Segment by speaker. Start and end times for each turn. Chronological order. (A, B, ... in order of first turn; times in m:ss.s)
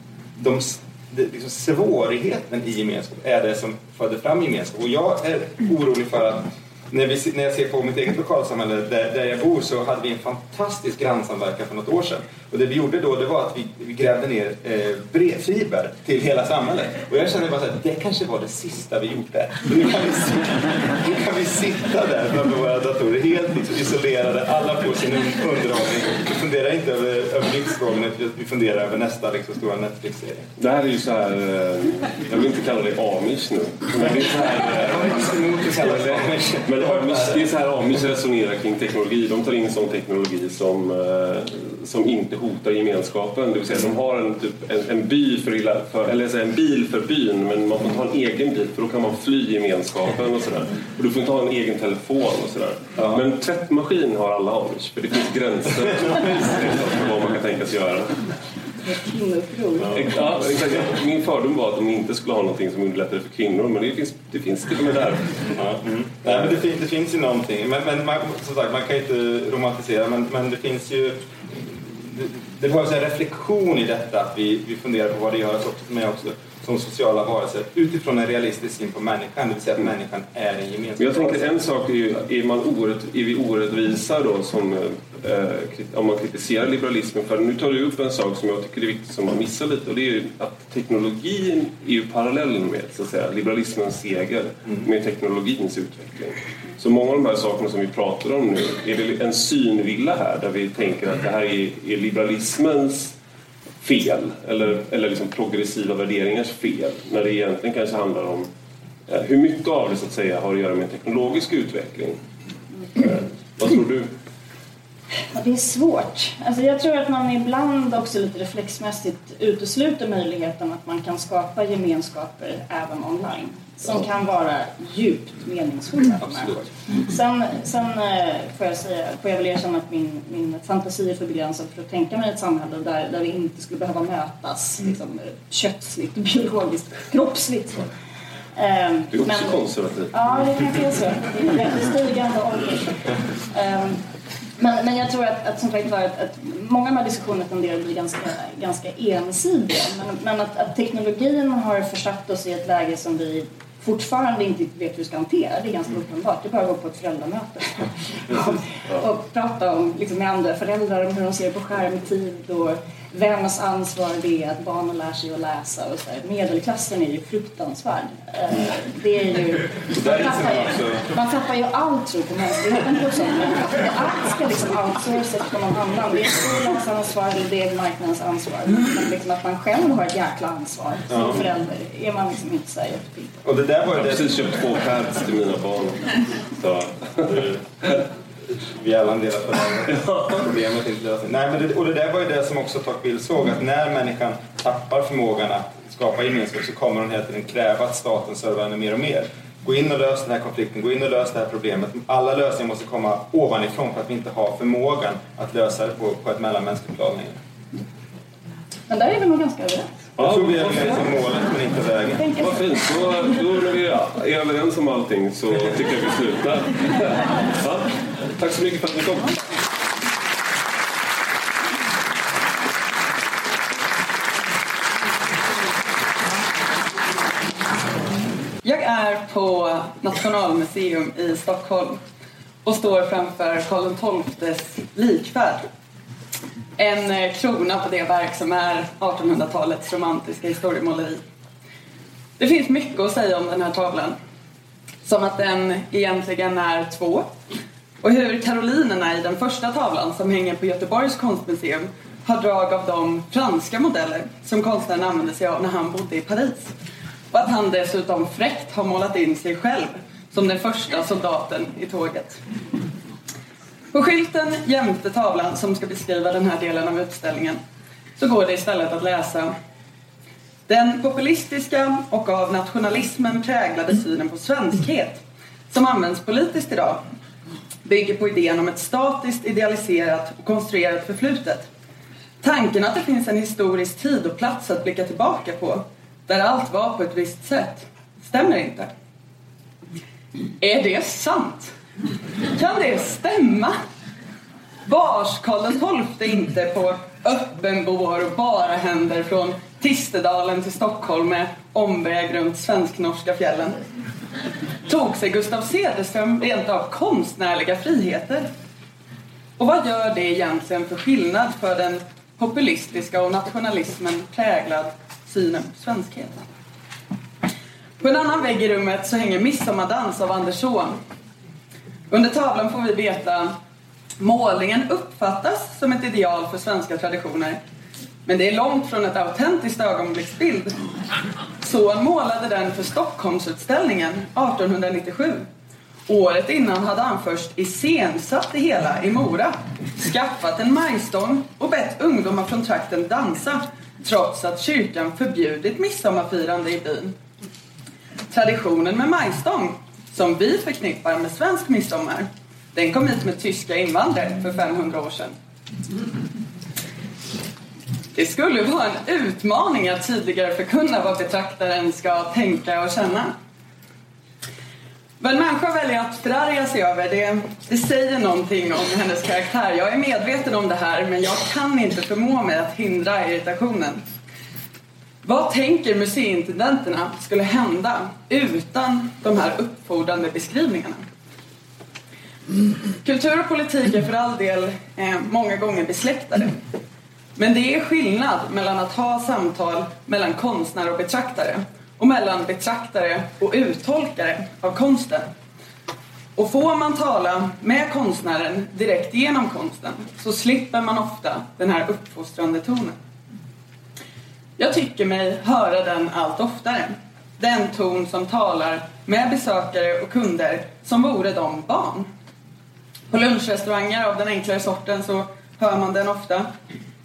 0:00.4-0:30.5 A
0:30.6-0:58.3 B
0:34.5-0:37.5 A
0:58.9-1:00.1 C
1:00.0-1:05.5 B
1:05.5-1:21.6 A
1:21.0-1:43.2 B
1:43.8-1:48.5 B
1:49.1-1:52.2 B
1:53.0-1:54.1 B
1:55.3-2:17.9 C
2:18.6-2:24.0 C
2:19.1-2:20.1 B
2:24.6-3:03.4 C
2:49.9-2:51.1 A
3:01.1-3:01.4 A
3:03.4-3:04.3 A
3:03.9-3:07.5 B
3:08.8-3:27.4 A
3:28.9-3:30.0 C
3:30.2-3:31.0 B
3:30.2-3:32.3 A
3:32.2-3:32.7 C
3:32.4-3:39.4 B
3:48.6-3:52.0 D
3:52.6-3:55.7 D
3:56.8-4:01.2 D
4:02.4-4:04.2 D
4:05.0-4:07.3 D
4:08.0-4:16.7 D
4:17.3-4:22.4 D
4:23.9-4:27.6 D
4:28.2-4:29.5 D
4:30.7-4:37.0 D
4:37.8-4:41.7 D
4:42.4-4:48.9 D
4:50.6-4:51.7 D
4:52.6-4:53.8 D
4:54.9-5:03.8 D
5:04.9-5:08.5 D
5:09.6-5:16.5 D
5:18.0-5:21.0 D
5:22.1-5:23.5 D
5:24.2-5:27.6 D
5:28.3-5:30.7 D
5:31.6-5:35.5 D
5:36.1-5:47.1 D
5:48.3-5:55.4 D
5:58.2-6:03.3 D
6:05.2-6:14.0 D
6:15.2-6:21.0 D
6:23.0-6:26.6 D
6:27.4-6:35.3 D
6:36.4-6:43.0 D
6:44.6-6:52.1 D
6:53.1-6:56.5 D